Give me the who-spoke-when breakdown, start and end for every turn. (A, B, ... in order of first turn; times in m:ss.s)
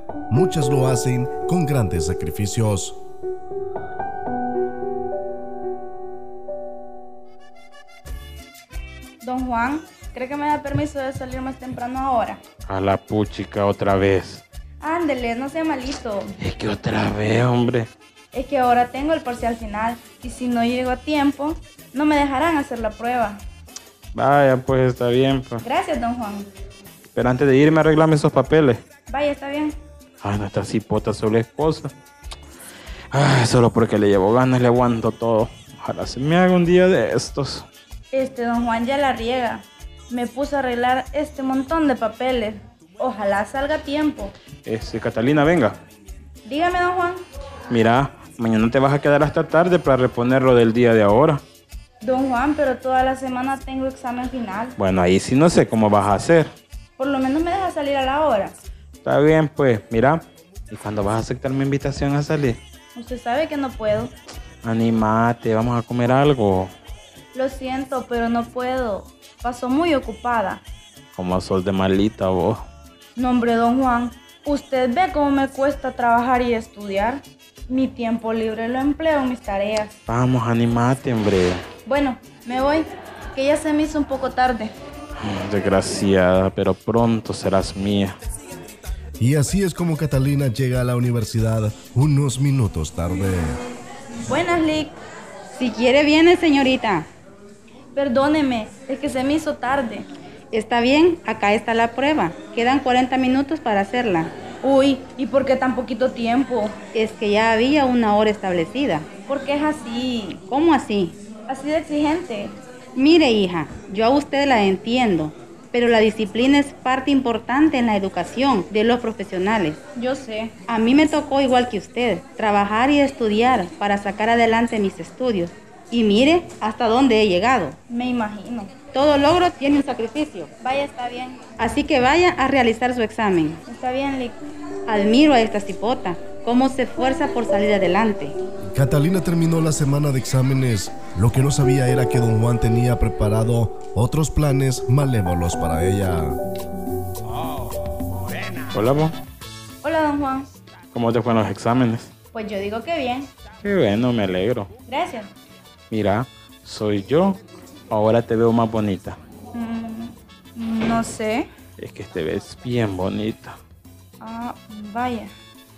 0:00.3-0:03.0 A
0:09.2-0:12.4 B
0:12.7-0:14.4 C
0:14.8-0:16.3 B
0:16.4-0:17.9 C
0:18.3-0:23.4 B
0:24.1-0:25.6 C
0:25.6-0:26.5 B
0:27.1-0:28.8 C
0:29.1-0:29.8 B
0:30.2-0:31.9 C
0:33.1-0:37.7 C
0:38.1-0:44.3 B
0:44.6-0:45.8 C
0:46.4-0:47.2 B
0:47.7-0:51.4 C
0:52.0-0:54.8 B
0:54.8-0:56.5 C
0:57.0-0:58.6 B
0:59.0-1:02.6 C
1:02.9-1:04.1 B
1:04.6-1:06.7 C
1:07.3-1:10.6 B
1:11.1-1:12.6 C
1:13.2-1:20.0 B
1:20.1-1:21.6 C
1:21.8-1:24.7 B
1:25.2-1:28.2 C
1:29.2-1:33.6 A
1:34.2-1:34.9 B
1:35.5-1:37.1 D
1:37.9-1:40.1 B
1:40.5-1:44.3 D
1:44.6-1:46.8 B
1:46.9-1:49.1 D
1:49.3-1:50.4 B
1:50.4-1:51.2 D
1:51.5-1:52.5 B
1:53.0-1:59.8 D
2:00.0-2:00.5 B
2:00.7-2:07.8 D
2:07.9-2:08.7 B
2:08.9-2:10.5 D
2:10.6-2:11.4 B
2:11.6-2:13.6 D
2:13.6-2:14.4 B
2:14.9-2:18.4 D
2:18.7-2:26.4 A
2:28.5-2:29.1 C
2:29.8-2:30.5 B
2:30.9-2:32.1 C
2:32.3-2:33.3 B
2:33.6-2:34.7 C
2:34.9-2:35.3 B
2:35.9-2:39.2 C
2:39.5-2:41.5 B
2:41.8-2:43.6 C
2:44.2-2:45.3 B